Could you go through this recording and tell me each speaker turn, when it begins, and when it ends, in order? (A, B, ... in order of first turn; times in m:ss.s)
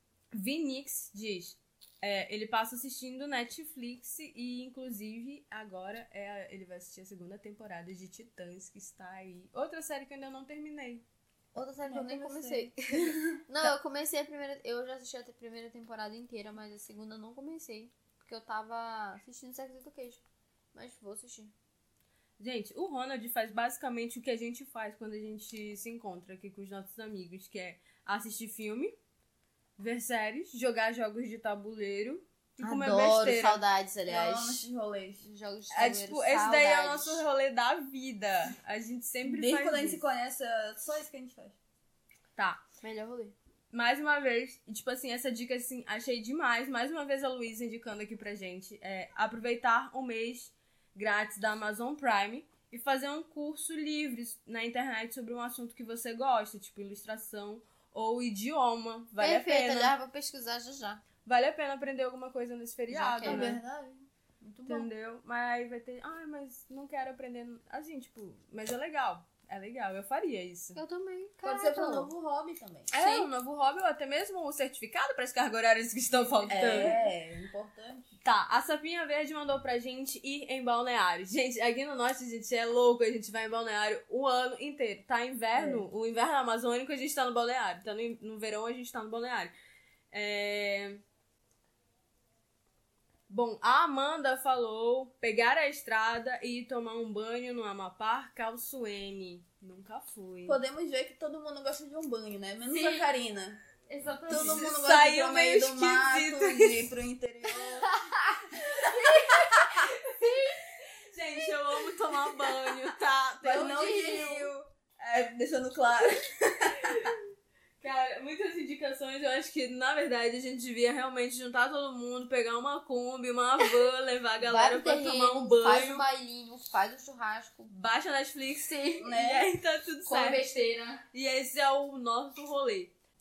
0:00.3-0:11.0 A
0:11.6-0:20.2 B
0:11.8-0:13.7 C
0:20.7-0:21.5 B
0:22.4-0:28.9 A
0:29.8-0:33.6 A
0:32.6-0:34.6 B
0:34.1-0:35.2 C
0:35.2-0:37.2 B
0:35.7-0:40.0 A
0:39.2-0:41.6 C
0:42.4-0:42.6 A
0:42.8-0:43.4 B
0:43.7-0:59.9 A
0:59.2-1:01.0 B
1:01.2-1:03.6 A
1:02.9-1:03.6 B
1:03.2-1:04.0 C
1:04.5-1:04.9 B
1:04.6-1:10.8 A
1:10.8-1:12.1 B
1:11.4-1:12.9 C
1:12.9-1:13.3 B
1:12.9-1:16.9 A
1:16.3-1:17.1 B
1:16.5-1:18.1 C
1:18.2-1:29.5 A
1:25.6-1:25.9 C
1:30.1-1:31.0 A
1:33.3-1:40.6 A
1:40.4-1:43.6 C
1:42.7-1:43.1 B
1:43.9-1:44.8 B
1:44.3-1:47.9 C
1:44.3-1:46.9 A
1:47.6-1:50.8 B
1:48.7-1:49.9 C
1:51.1-1:53.8 A
1:51.4-1:52.1 B
1:53.4-1:54.5 B
1:53.4-1:57.1 C
1:56.8-1:57.2 A
1:57.8-2:06.0 A
2:04.4-2:07.7 B
2:07.7-2:10.5 A
2:08.6-2:09.2 B
2:09.0-2:09.5 C
2:10.0-2:11.0 B
2:11.1-2:12.9 A